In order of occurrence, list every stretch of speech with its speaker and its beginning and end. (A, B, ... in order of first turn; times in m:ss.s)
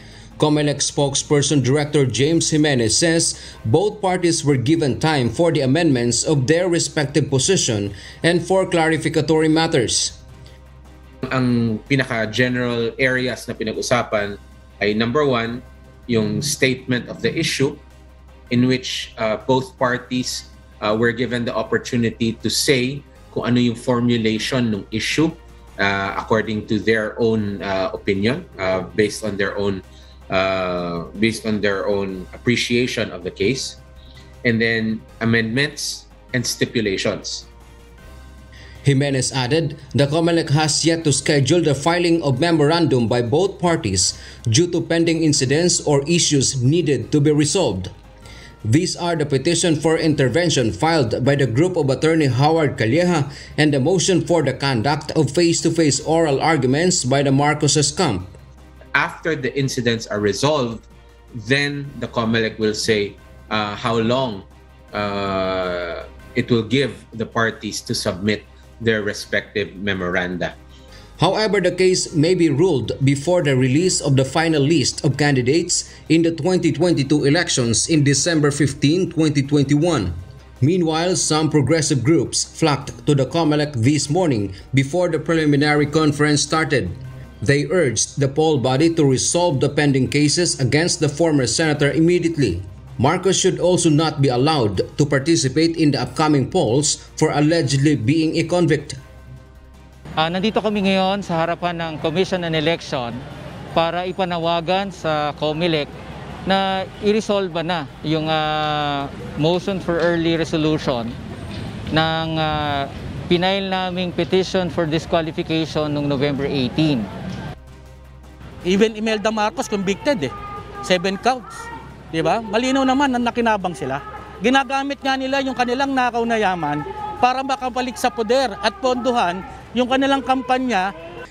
0:00.4-0:10.2 A
0:11.3-0:17.8 B
0:18.5-0:33.8 B
0:34.4-0:37.5 B
0:38.8-0:47.9 A
0:48.6-0:58.3 A
0:59.0-1:10.6 B
1:11.2-1:39.0 A
1:40.2-1:43.2 C
1:43.8-1:45.9 C
1:46.5-1:51.2 C
1:51.9-1:57.1 C
1:58.7-2:00.3 D
2:00.8-2:01.5 D
2:02.1-2:10.9 D